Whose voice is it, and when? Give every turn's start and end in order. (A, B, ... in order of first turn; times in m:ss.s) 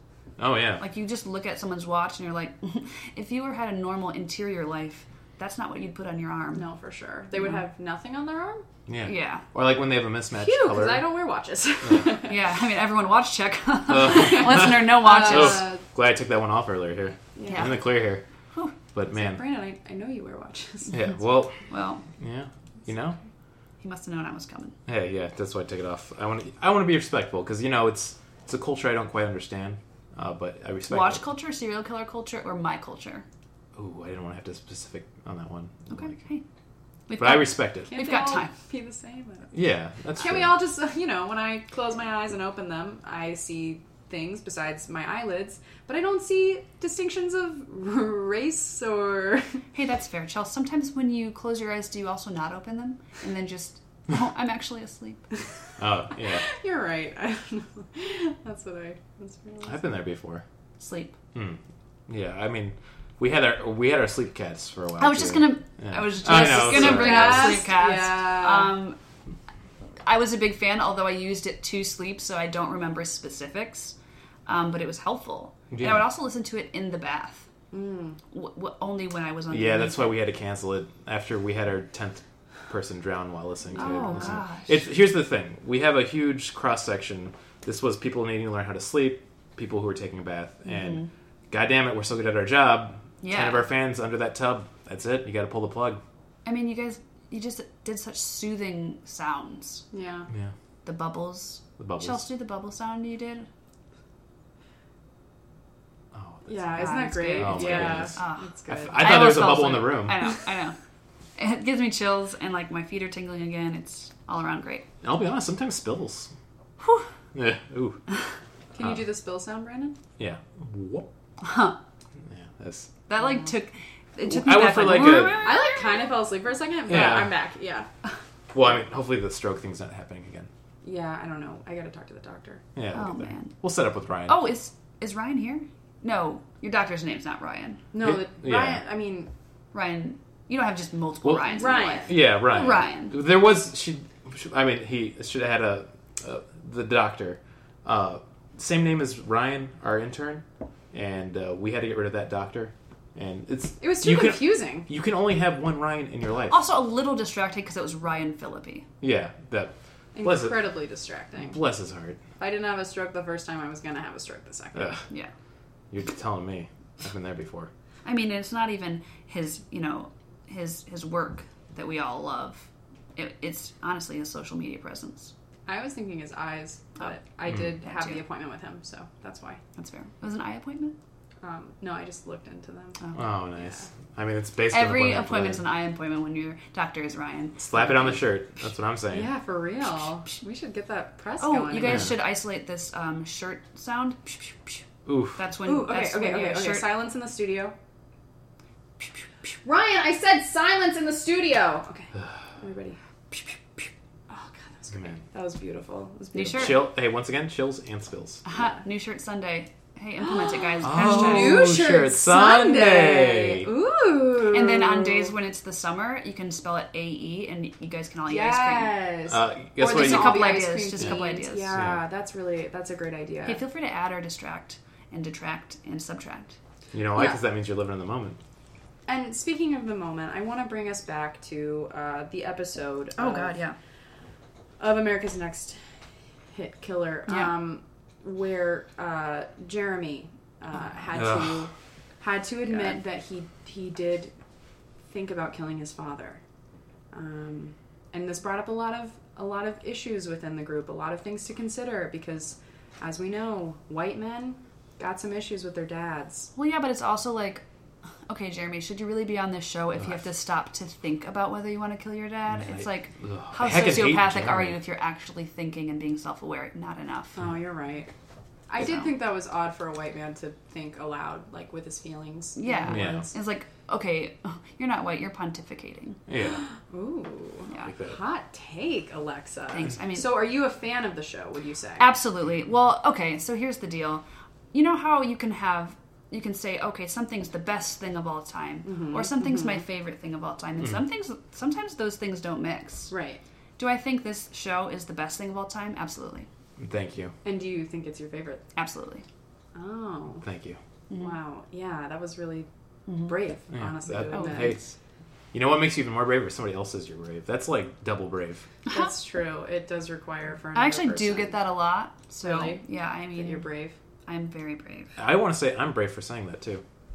0:00.4-0:00.8 A
0:00.8-0:06.6 B
0:06.5-0:08.6 C
0:08.9-0:11.1 A
0:09.0-0:09.4 B
0:10.3-0:12.4 C
0:11.8-0:12.1 A
0:12.3-0:15.7 B
0:13.9-0:18.2 A
0:14.0-0:15.8 C
0:17.4-0:17.8 C
0:17.4-0:18.0 B
0:18.9-0:19.4 A
0:19.1-0:21.0 C
0:20.9-0:21.6 A
0:21.6-0:22.0 B
0:22.1-0:23.2 A
0:23.8-0:24.8 B
0:24.8-0:31.2 A
0:30.9-0:33.2 B
0:33.8-0:36.2 A
0:35.9-0:36.4 B
0:37.1-0:38.5 B
0:37.2-0:37.9 A
0:37.9-0:39.5 C
0:39.5-0:40.6 A
0:40.2-0:49.6 C
0:49.7-0:55.2 B
0:55.8-0:56.4 A
0:56.4-0:59.8 C
0:59.6-1:00.4 A
1:00.8-1:01.1 B
1:01.3-1:07.6 A
1:05.0-1:09.0 B
1:06.2-1:08.8 C
1:10.0-1:13.9 B
1:14.4-1:17.5 B
1:15.7-1:16.1 A
1:17.7-1:18.2 C
1:18.3-1:20.2 B
1:19.5-1:36.0 A
1:23.7-1:24.3 C
1:23.8-1:24.8 B
1:30.6-1:31.1 B
1:33.2-1:33.7 B
1:36.4-1:39.8 B
1:39.9-1:40.3 C
1:40.8-1:43.5 B
1:41.8-1:42.2 A
1:46.1-1:46.8 A
1:46.5-1:49.1 C
1:46.8-1:50.8 B
1:47.4-1:50.2 A
1:51.4-1:54.9 B
1:55.0-1:56.3 A
1:56.8-1:57.1 B
1:57.3-1:58.0 A
1:58.7-2:00.0 C
2:00.2-2:01.1 A
2:01.4-2:01.8 B
2:02.3-2:02.9 A
2:03.1-2:06.0 B
2:04.2-2:05.5 A
2:05.3-2:07.9 C
2:06.9-2:07.3 A
2:08.5-2:10.5 A
2:10.8-2:12.6 C
2:12.7-2:14.4 A
2:12.9-2:13.6 B
2:14.3-2:17.8 B
2:17.9-2:19.3 C
2:18.0-2:18.8 A
2:19.7-2:23.2 B
2:21.2-2:36.6 A
2:21.5-2:22.2 C
2:33.8-2:34.9 C
2:36.5-2:38.9 B
2:39.0-2:40.7 A
2:40.1-2:41.6 C
2:41.4-2:42.2 A
2:42.4-2:45.0 C
2:44.7-2:45.0 A
2:45.9-2:47.7 A
2:48.0-2:55.3 B
2:55.7-2:59.6 C
2:57.8-2:58.2 B
2:59.8-3:01.0 B
3:01.4-3:03.0 C
3:03.1-3:05.6 A
3:04.7-3:08.2 B
3:07.6-3:09.3 A
3:09.1-3:12.1 C
3:11.4-3:14.8 B
3:11.8-3:12.1 A
3:15.0-3:15.4 A
3:15.3-3:17.1 B
3:15.6-3:17.7 C
3:19.6-3:22.1 C
3:22.6-3:23.0 C
3:24.3-3:26.8 C
3:24.9-3:25.2 A
3:26.3-3:26.8 B
3:26.5-3:28.4 A
3:28.4-3:31.8 B
3:30.2-3:35.3 C
3:30.8-3:33.7 A
3:34.5-3:39.1 B
3:38.3-3:43.6 C
3:39.3-3:41.2 A
3:39.8-3:41.8 B
3:41.7-3:42.0 A
3:43.4-3:46.6 B
3:46.9-3:48.4 A
3:47.1-3:47.4 C
3:49.1-3:53.5 C
3:53.2-3:53.8 B
3:54.8-3:55.8 C
3:56.5-4:04.3 C
3:57.3-3:57.6 B
4:01.1-4:01.7 A
4:02.6-4:03.0 B
4:05.1-4:06.4 C
4:07.1-4:16.5 C
4:16.5-4:17.6 B
4:18.3-4:27.4 B
4:22.5-4:24.8 A
4:27.4-4:28.1 C
4:28.7-4:33.2 C
4:28.8-4:29.2 B
4:32.6-4:36.2 B
4:32.9-4:33.3 A
4:36.3-4:36.6 A
4:36.9-4:42.1 C
4:37.9-4:38.2 A
4:39.7-4:40.5 B
4:42.0-4:53.1 B
4:48.8-4:49.8 C
4:53.1-4:53.4 C
4:53.8-4:56.5 B
4:56.8-4:57.3 A
4:57.4-4:58.6 C
4:58.8-4:59.2 B
4:59.7-5:00.4 C
5:00.4-5:00.8 A
5:01.1-5:01.4 B
5:01.1-5:02.7 C
5:03.1-5:03.4 B
5:03.2-5:04.8 C
5:03.7-5:04.9 A
5:04.3-5:04.8 B
5:05.5-5:08.7 A
5:08.8-5:09.1 B
5:08.9-5:11.6 C
5:10.7-5:13.7 B
5:12.3-5:14.0 C
5:14.2-5:15.1 B
5:15.2-5:16.8 A